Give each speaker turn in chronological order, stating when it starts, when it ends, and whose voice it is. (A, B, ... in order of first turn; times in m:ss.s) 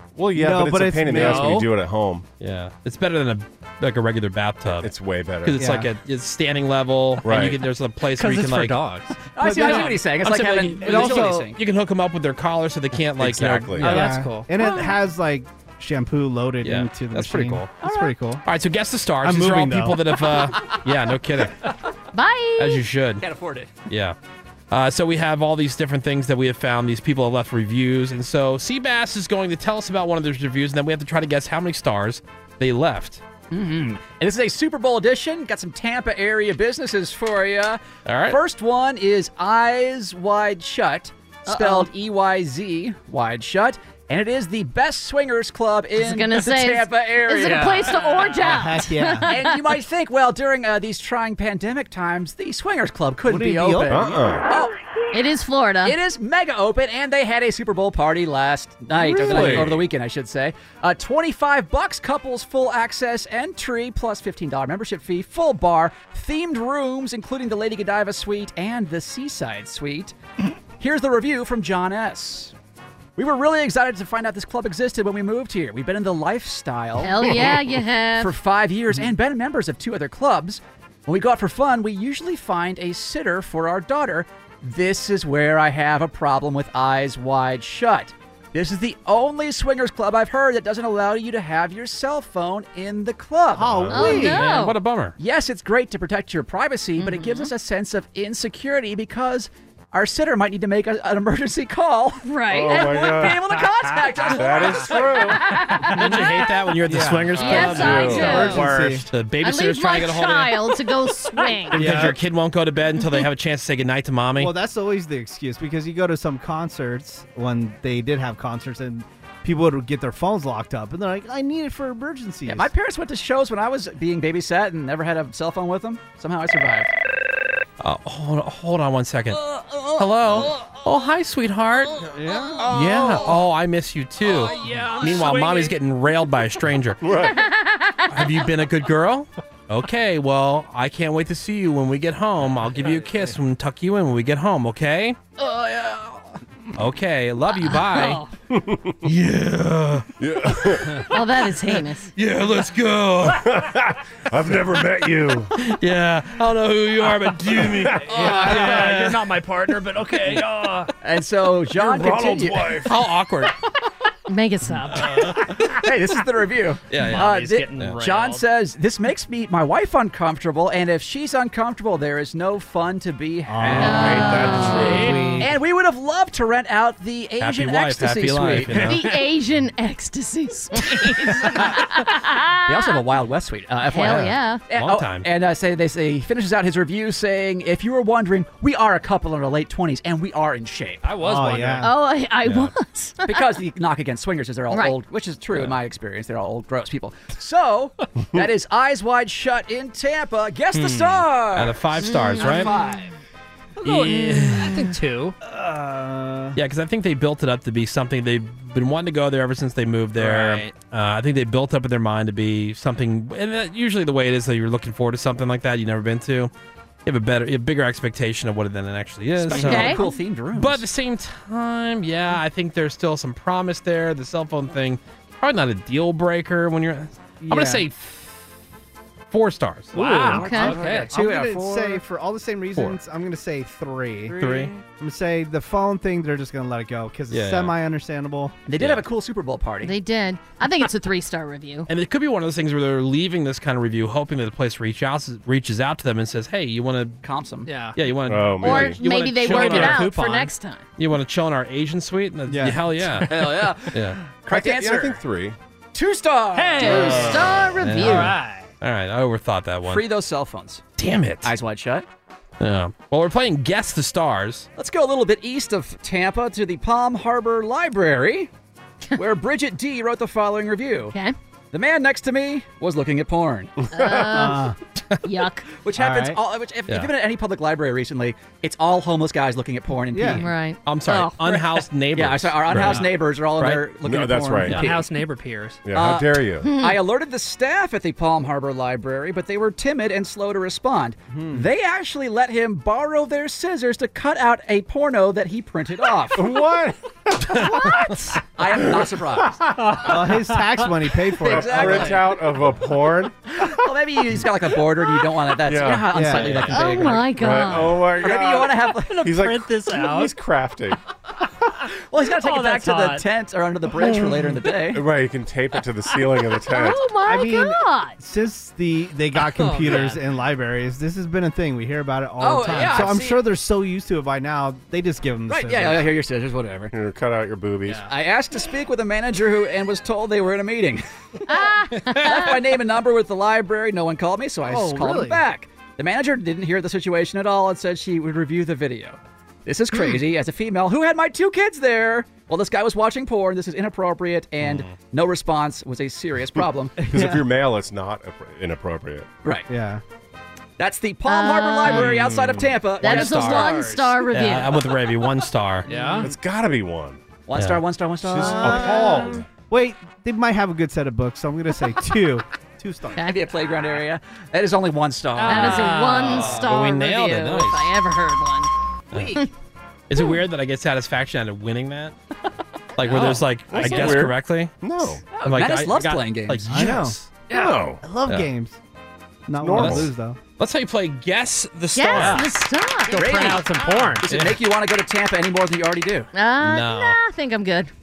0:00.2-0:02.2 A
0:00.3-0:01.6 B
0:01.1-0:01.7 C
0:02.4-0:04.9 D
0:04.6-0:05.6 A
0:05.4-0:08.8 D
0:05.6-0:05.9 B
0:07.2-0:07.6 A
0:08.2-0:09.7 C
0:09.3-0:11.6 E
0:09.4-0:10.0 B
0:09.6-0:14.1 D
0:10.8-0:11.5 B
0:13.2-0:14.0 A
0:13.8-0:14.5 C
0:13.8-0:18.4 B
0:16.6-0:17.7 D
0:17.8-0:18.1 E
0:18.4-0:21.7 D
0:19.2-0:20.0 B
0:22.1-0:22.8 F
0:22.6-0:23.2 D
0:23.2-0:23.7 E
0:23.9-0:24.2 D
0:24.7-0:33.2 D
0:33.5-0:48.0 E
0:38.0-0:38.4 D
0:41.5-0:41.9 F
0:46.0-0:49.6 F
0:47.4-0:48.4 C
0:48.4-0:49.3 B
0:49.3-0:54.7 E
0:53.2-0:54.1 B
0:53.9-0:54.5 A
0:55.1-0:56.0 F
0:55.8-1:10.2 E
0:59.2-0:59.8 A
0:59.2-0:59.6 B
1:10.8-1:12.5 E
1:13.2-1:17.6 E
1:17.0-1:18.3 F
1:18.2-1:34.3 E
1:33.6-1:34.5 B
1:33.6-1:34.1 A
1:33.9-1:34.8 F
1:34.1-1:35.2 D
1:35.2-1:45.3 E
1:37.0-1:37.5 F
1:42.2-1:43.2 F
1:42.5-1:43.6 A
1:44.2-1:45.4 A
1:45.1-1:46.3 F
1:45.8-1:50.8 D
1:46.8-1:49.1 B
1:47.4-1:49.0 C
1:47.4-1:48.6 F
1:47.7-1:48.4 A
1:49.4-1:51.8 F
1:51.7-1:54.5 D
1:51.7-1:52.2 B
1:54.4-2:02.7 B
2:02.4-2:06.9 E
2:07.8-2:12.1 D
2:12.1-2:12.8 B
2:12.7-2:17.0 D
2:14.2-2:15.7 C
2:17.0-2:17.4 A
2:17.3-2:18.1 F
2:18.1-2:25.2 D
2:22.6-2:23.1 C
2:26.8-2:28.2 D
2:27.6-2:28.3 F
2:28.5-2:29.0 A
2:29.0-2:30.9 D
2:30.2-2:31.0 A
2:31.1-2:32.1 F
2:32.2-2:33.6 D
2:33.3-2:35.5 A
2:35.6-2:39.2 D
2:37.6-2:38.5 A
2:38.0-2:40.9 C
2:41.0-2:42.8 E
2:42.5-2:43.5 D
2:44.3-2:45.2 F
2:45.0-2:45.7 C
2:45.0-2:45.4 D
2:45.7-2:54.5 E
2:46.9-2:48.0 D
2:47.0-2:48.4 C
2:53.5-2:55.5 B
2:53.8-2:54.9 F
2:53.9-2:55.0 A
2:54.7-2:55.4 C
2:55.4-2:58.9 E
2:57.4-2:59.0 D
2:58.8-3:02.9 F
3:02.6-3:11.1 E
3:03.9-3:04.6 F
3:04.0-3:05.3 D
3:11.0-3:11.9 C
3:11.2-3:11.9 B
3:11.8-3:13.5 F
3:12.4-3:12.7 D
3:13.2-3:21.8 E
3:20.7-3:21.2 C
3:21.5-3:22.8 D
3:22.0-3:22.6 F
3:22.4-3:23.1 E
3:23.8-3:25.3 C
3:23.8-3:24.8 D
3:25.4-3:26.6 B
3:26.5-3:36.5 D
3:30.2-3:30.7 C
3:37.0-3:48.4 D
3:39.4-3:40.8 E
3:39.6-3:40.0 F
3:47.4-3:47.8 B
3:49.3-3:50.4 D
3:49.9-3:51.1 C
3:50.3-3:52.0 E
3:50.3-3:50.8 F
3:50.7-3:58.5 B
3:54.3-3:54.7 D
3:57.3-3:57.8 D
3:58.6-3:59.9 E
3:58.8-3:59.0 D
3:59.8-4:01.9 F
4:01.9-4:07.2 D
4:07.2-4:07.7 E
4:07.6-4:08.0 C
4:07.9-4:10.1 D
4:08.3-4:09.0 A
4:08.6-4:10.8 F
4:09.2-4:10.5 C
4:11.0-4:14.2 D
4:12.5-4:13.2 B
4:13.3-4:15.2 E
4:14.5-4:15.6 A
4:15.9-4:17.3 E
4:16.5-4:18.7 C
4:16.8-4:18.3 F
4:17.6-4:20.0 D
4:19.8-4:20.8 E
4:21.0-4:21.5 D
4:21.4-4:22.0 E
4:22.6-4:24.7 D
4:24.8-4:28.5 E
4:29.2-4:31.1 E
4:31.7-4:33.8 E
4:33.9-4:34.6 A
4:33.9-4:34.6 F
4:34.1-4:34.8 B
4:35.2-4:35.7 F
4:35.8-4:40.5 E
4:35.9-4:36.4 B
4:40.1-4:40.4 B
4:40.3-4:41.6 F
4:40.8-4:43.8 D
4:42.1-4:45.0 E
4:42.7-4:43.0 C
4:44.0-4:45.0 A
4:44.6-4:45.8 C
4:45.8-4:46.7 A
4:45.9-4:56.4 E
4:46.6-4:47.0 F
4:51.3-4:51.7 B
4:56.4-4:57.6 A
4:57.5-4:58.4 F
4:58.6-4:59.6 E
4:59.8-5:00.6 C
5:00.0-5:02.2 B
5:01.4-5:02.2 E
5:01.4-5:03.7 A
5:03.7-5:07.3 E
5:05.6-5:06.7 A
5:06.1-5:06.7 B
5:06.7-5:08.1 F
5:07.3-5:11.0 A
5:08.1-5:09.2 E
5:09.0-5:10.3 C
5:12.1-5:15.0 E
5:12.2-5:13.2 C
5:14.0-5:14.3 A
5:14.9-5:17.0 A
5:16.7-5:18.2 F
5:17.2-5:26.1 B
5:19.4-5:20.2 C
5:22.4-5:23.4 E
5:25.5-5:26.9 E
5:26.9-5:28.0 A
5:27.8-5:28.1 C
5:28.1-5:31.0 E
5:31.5-5:32.5 F
5:32.1-5:46.9 E
5:34.6-5:35.4 B
5:44.6-5:44.9 D
5:47.0-5:47.5 B
5:47.1-5:49.3 A
5:49.7-5:50.0 B
5:50.8-5:53.8 E
5:51.2-5:52.1 F
5:52.2-5:52.5 D
5:53.0-5:53.7 D
5:53.0-5:54.8 F
5:53.2-5:54.2 C
5:54.3-5:55.9 D
5:55.8-5:56.3 C
5:56.2-5:57.2 A
5:57.5-5:59.2 E
5:57.5-5:57.8 D
5:58.2-6:03.3 B
5:58.3-5:59.4 A
6:03.2-6:06.0 E
6:05.3-6:06.7 C
6:05.4-6:08.7 F
6:06.2-6:07.9 D
6:09.1-6:09.4 D
6:10.1-6:12.1 D
6:13.0-6:17.3 D
6:13.1-6:13.4 C
6:13.7-6:15.2 A
6:15.3-6:16.8 E
6:16.7-6:17.2 B
6:17.5-6:18.0 A
6:18.0-6:18.8 B
6:19.5-6:20.4 B
6:19.6-6:20.1 A
6:19.7-6:22.5 D
6:21.9-6:23.6 F
6:22.1-6:22.4 C
6:23.1-6:24.3 C
6:23.1-6:26.3 E
6:24.3-6:24.6 D
6:26.3-6:27.9 F
6:26.6-6:27.2 D